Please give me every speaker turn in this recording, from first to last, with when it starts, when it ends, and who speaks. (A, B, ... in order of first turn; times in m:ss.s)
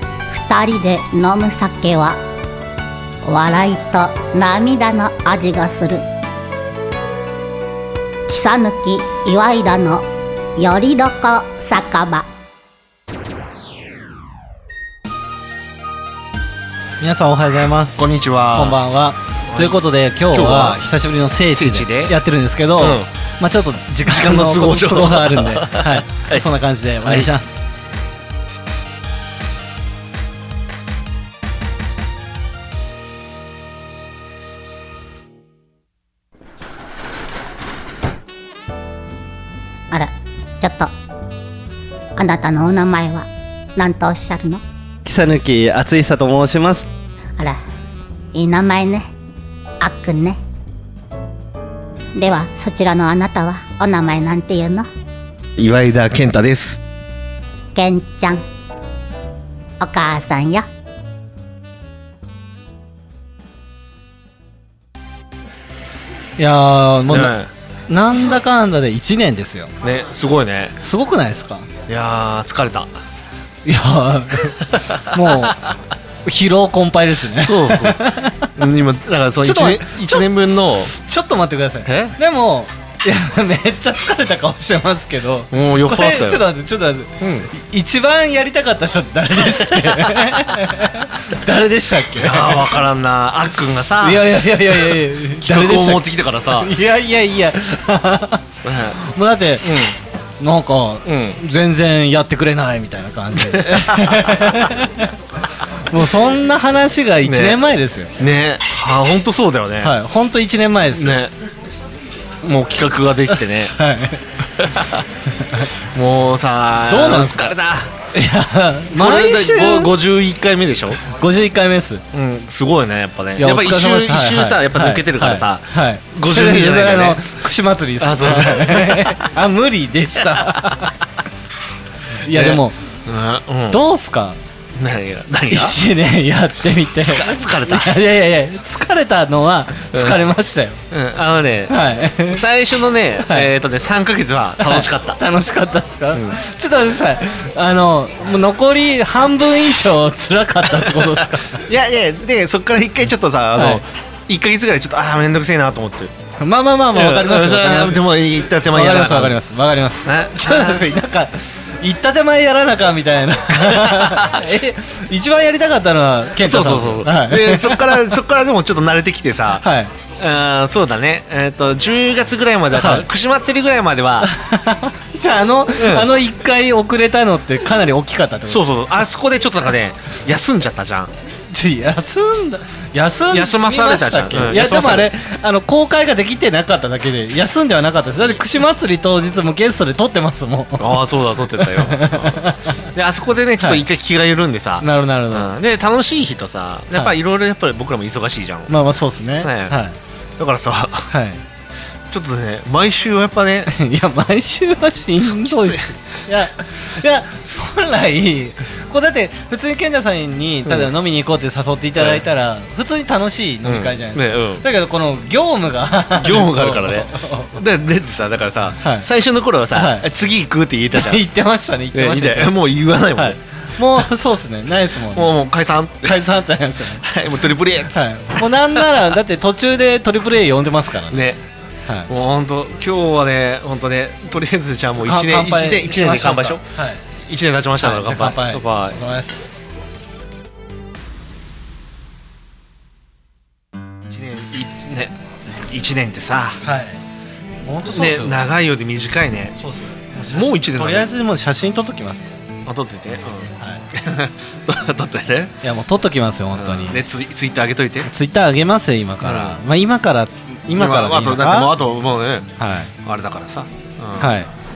0:00.3-0:02.2 A
0:03.2-0:06.0 A
0:08.3-0:10.0 A
0:10.6-0:12.2 A
0:17.0-0:27.6 B
0:18.0-0:18.8 C
0:19.5-0:20.8 C
0:21.5-0:22.1 C
0:22.8-0:23.1 C
0:24.0-0:26.4 C
0:27.0-0:27.3 C
0:39.9-0:40.9 A
0:42.2-0:44.6 A
0:45.0-0:46.9 B
0:48.3-0:49.1 A
0:49.8-0:50.4 A
0:52.1-0:54.9 A
0:55.6-0:56.8 C
0:57.7-0:58.4 A
0:59.8-1:00.6 A
1:06.4-1:07.3 B
1:07.1-1:07.5 C
1:07.9-1:09.7 B
1:09.8-1:10.8 C
1:10.8-1:11.7 B
1:11.9-1:12.9 C
1:13.6-1:15.6 B
1:14.4-1:15.7 C
1:16.2-1:18.5 B
1:17.3-1:20.9 C
1:19.4-1:20.3 B
1:20.9-1:32.8 B
1:21.8-1:22.2 C
1:25.5-1:26.4 C
1:27.2-1:27.5 C
1:29.4-1:30.4 C
1:32.2-1:36.7 C
1:34.0-1:39.7 B
1:38.6-1:39.0 C
1:39.6-1:39.9 C
1:40.4-1:45.1 B
1:41.0-1:41.4 C
1:43.3-1:44.7 C
1:45.8-1:48.2 B
1:47.2-1:47.6 C
1:48.1-1:49.9 C
1:49.8-1:51.2 B
1:50.9-1:51.3 C
1:52.4-1:53.7 C
1:53.3-1:54.2 B
1:54.6-1:55.0 C
1:55.4-1:55.6 B
1:55.9-1:57.9 C
1:56.9-1:57.6 B
1:58.1-1:59.9 B
1:58.9-2:01.0 C
2:01.1-2:02.0 B
2:02.1-2:07.2 C
2:03.4-2:10.9 B
2:08.0-2:09.3 C
2:10.3-2:10.8 C
2:12.2-2:12.8 B
2:12.2-2:13.8 C
2:13.7-2:14.4 B
2:14.8-2:15.8 C
2:15.5-2:20.8 B
2:17.0-2:17.9 C
2:19.9-2:20.2 C
2:20.9-2:25.2 C
2:21.7-2:22.4 B
2:23.2-2:23.5 B
2:24.6-2:31.6 B
2:26.1-2:26.4 C
2:30.8-2:36.1 C
2:33.5-2:33.8 B
2:36.4-2:38.0 B
2:36.9-2:39.4 C
2:38.7-2:48.2 B
2:40.0-2:40.9 C
2:43.5-2:44.4 C
2:46.4-2:49.6 C
2:49.6-2:49.9 B
2:50.2-2:54.3 C
2:52.7-2:53.1 B
2:54.2-2:58.7 B
2:55.7-2:56.1 C
2:58.5-3:01.1 C
3:01.5-3:12.8 B
3:03.3-3:05.1 C
3:10.8-3:18.7 C
3:14.8-3:15.5 B
3:18.7-3:20.0 B
3:19.4-3:19.8 C
3:20.4-3:21.1 C
3:21.1-3:21.4 B
3:22.1-3:23.7 C
3:23.7-3:37.6 B
3:25.2-3:25.9 C
3:33.6-3:34.6 C
3:36.2-3:41.2 C
3:38.8-3:39.1 B
3:39.7-3:40.0 B
3:40.9-3:42.6 B
3:41.9-3:43.4 C
3:43.1-3:45.4 B
3:45.1-3:46.2 C
3:46.0-3:47.0 B
3:47.0-3:49.0 C
3:47.9-3:51.2 B
3:51.1-3:51.4 C
3:52.1-3:56.6 C
3:55.0-3:57.0 B
3:57.2-3:59.0 C
3:57.8-3:59.6 B
4:04.1-4:05.1 C
4:05.7-4:06.6 C
4:06.6-4:07.0 B
4:07.6-4:08.4 B
4:07.9-4:09.6 C
4:09.6-4:12.3 B
4:10.2-4:11.1 C
4:12.6-4:15.6 C
4:13.6-4:13.8 B
4:15.6-4:17.0 B
4:16.6-4:18.1 C
4:18.0-4:21.7 B
4:19.2-4:19.6 C
4:20.7-4:22.5 C
4:22.6-4:22.9 B
4:23.0-4:24.3 C
4:24.2-4:24.5 B